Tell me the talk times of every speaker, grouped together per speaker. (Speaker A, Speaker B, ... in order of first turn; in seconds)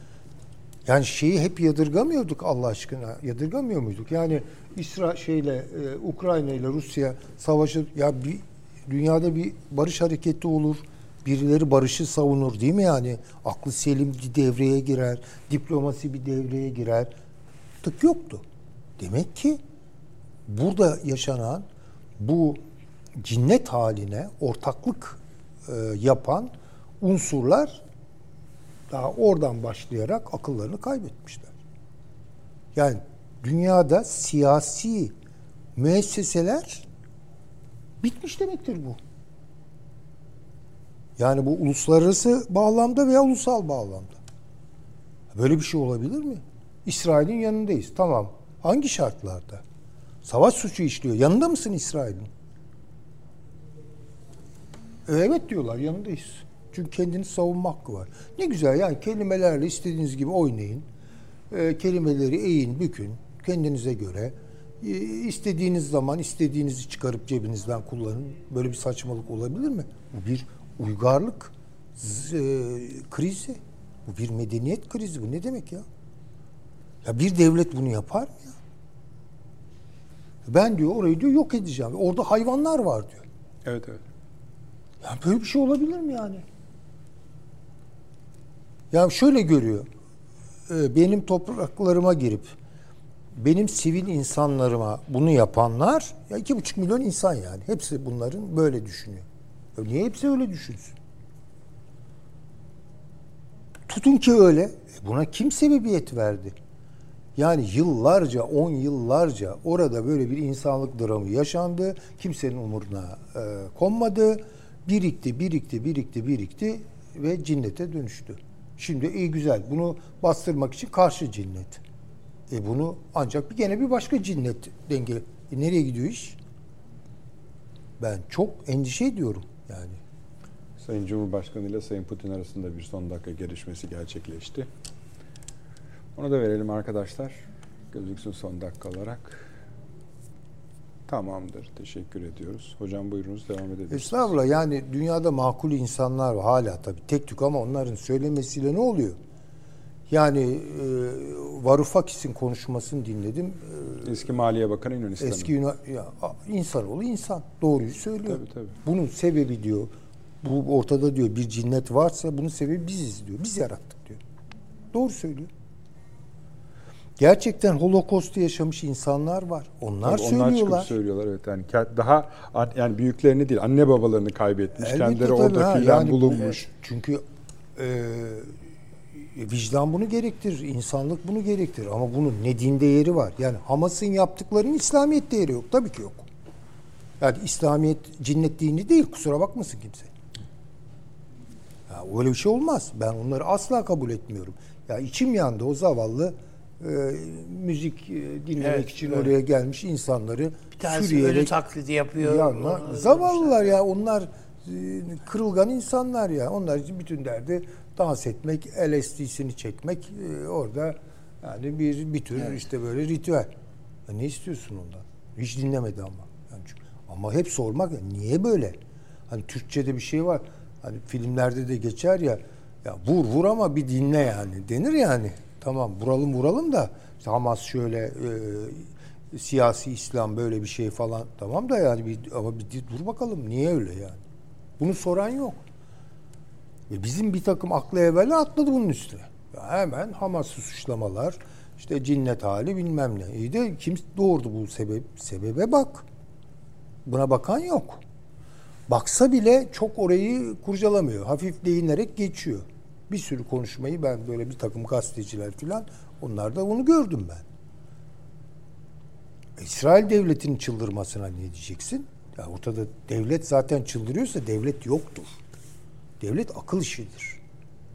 Speaker A: 0.8-17.1, 17.8-18.4, 19.0-19.6, 20.5-21.6, 22.2-22.6, 23.2-27.8, 28.9-31.5, 32.7-35.1, 35.8-36.8, 38.0-39.0, 41.2-44.2, 45.3-49.6, 50.2-52.3, 55.1-60.9, 61.5-75.8, 77.0-78.5, 80.5-83.2, 85.0-86.4, 88.9-89.9, 90.7-92.5, 93.3-101.0, 103.9-106.5, 107.3-121.8, 122.5-126.4, 128.0-130.0, 143.9-149.2, 150.1-154.1, 155.2-164.2, 164.9-165.5, 167.2-170.9, 174.8-177.2, 177.8-178.5, 179.1-186.3, 187.2-190.1, 191.9-201.6, 202.2-213.5, 214.1-234.2, 234.8-235.6, 236.9-246.0, 247.0-248.0, 248.9-257.4, 259.6-265.4, 266.2-267.4
Speaker B: 83.6-84.0, 130.8-134.7, 136.1-137.4, 137.9-139.5, 141.1-144.3, 154.0-155.5, 158.2-158.8, 170.0-176.6
Speaker C: 198.6-199.3, 200.8-203.7